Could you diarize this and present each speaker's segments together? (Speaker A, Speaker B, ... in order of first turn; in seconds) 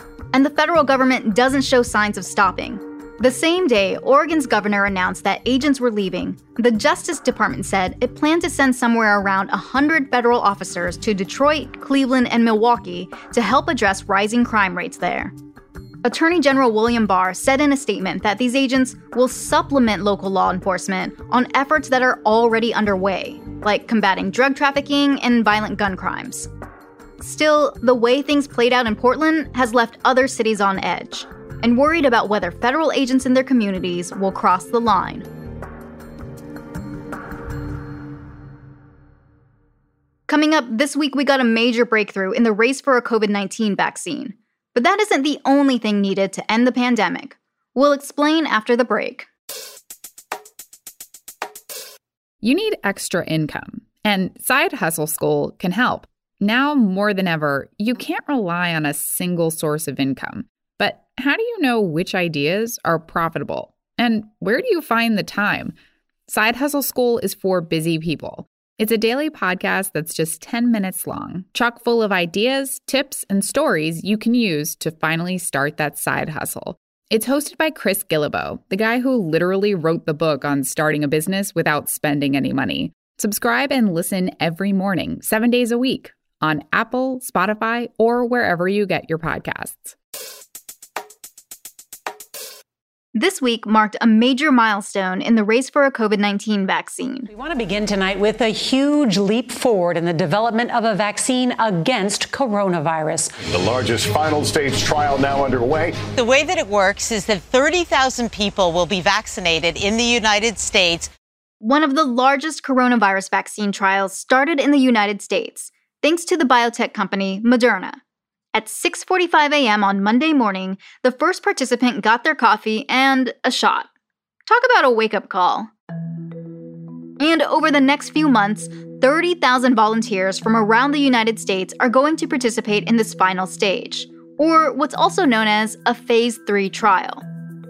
Speaker A: 0.3-15.3, 16.0-26.5, 27.2-35.3, 40.3-49.3, 93.1-97.3, 111.6-118.0, 118.5-123.9, 124.5-125.7, 127.2-137.2
Speaker B: 52.4-65.7, 66.3-90.0
Speaker C: 97.3-103.3
Speaker D: 103.6-105.9
Speaker E: 106.1-111.1